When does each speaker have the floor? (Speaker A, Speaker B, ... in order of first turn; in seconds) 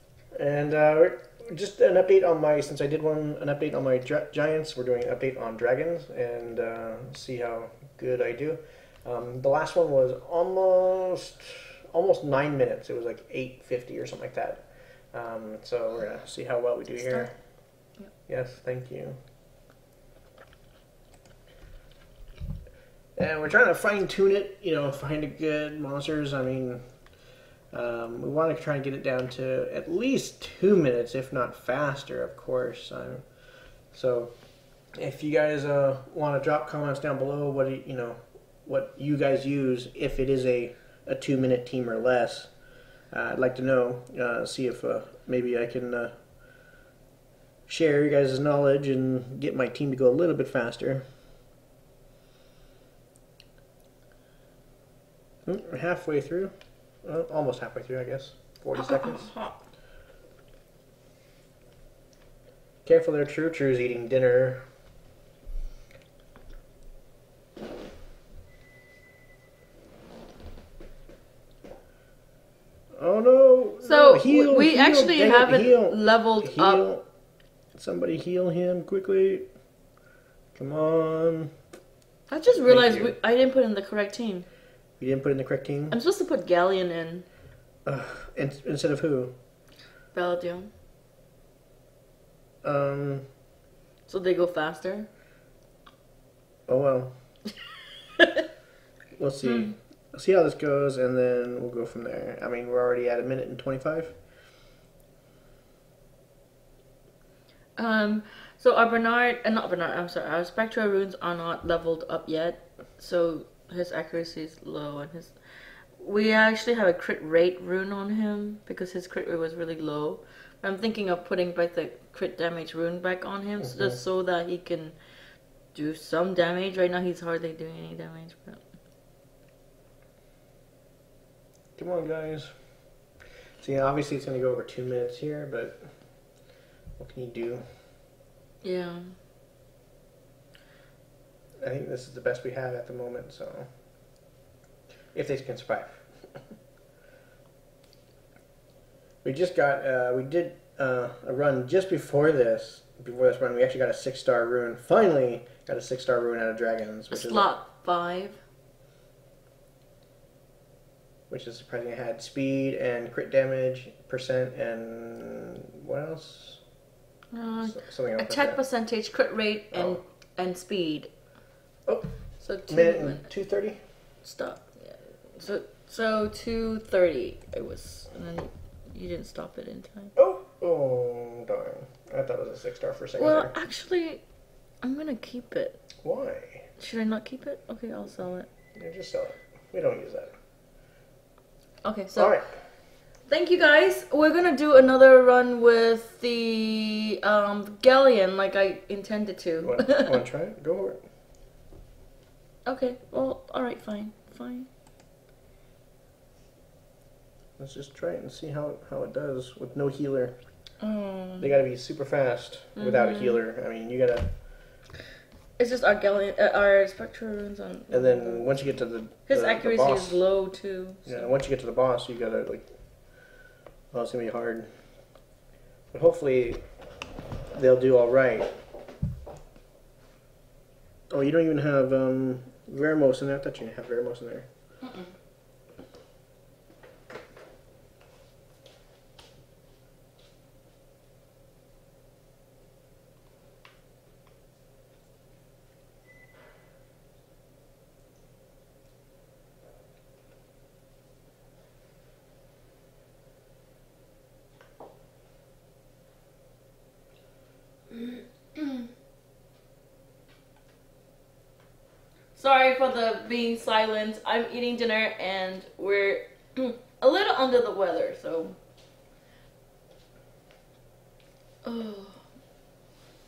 Speaker A: 0.3-17.3, 18.3-19.2, 23.2-26.8, 27.7-33.2, 33.9-34.3, 35.0-42.5, 43.1-46.1, 47.7-51.0, 55.5-56.5, 57.0-59.3, 62.8-64.6, 73.0-77.0, 77.7-79.5, 80.5-81.5, 82.5-83.2, 85.0-86.0, 87.8-89.3, 92.6-93.2, 96.7-97.1, 99.2-104.2, 123.6-124.0, 131.8-132.5, 133.6-135.8, 137.0-137.6, 141.6-143.7, 145.1-146.1, 149.2-157.5, 161.3-166.6, 167.6-168.6, 169.7-170.0, 171.9-172.1, 172.7-173.8, 180.2-183.5, 186.0-186.7, 188.7-190.3, 192.1-192.7, 199.6-201.0, 207.6-210.4, 211.4-214.3, 217.9-220.2, 221.1-222.7, 223.9-224.7, 225.9-226.6, 227.5-228.5, 231.1-234.5
Speaker B: 16.9-17.3, 58.7-59.6, 73.8-76.8, 82.3-84.5, 85.9-87.3, 90.1-90.7, 94.1-95.1, 98.2-98.4, 99.4-99.7, 107.8-115.4, 115.9-125.0, 125.7-128.6, 138.6-139.0, 157.1-158.4, 167.3-171.1, 172.4-173.2, 174.2-180.1, 183.2-184.2, 184.8-185.8, 186.8-188.5, 191.8-192.3, 193.3-200.2, 202.7-204.7, 210.8-211.5, 212.8-213.4, 215.6-218.7, 219.3-221.3, 234.8-235.1, 257.9-258.9, 262.3-268.6, 271.6-272.2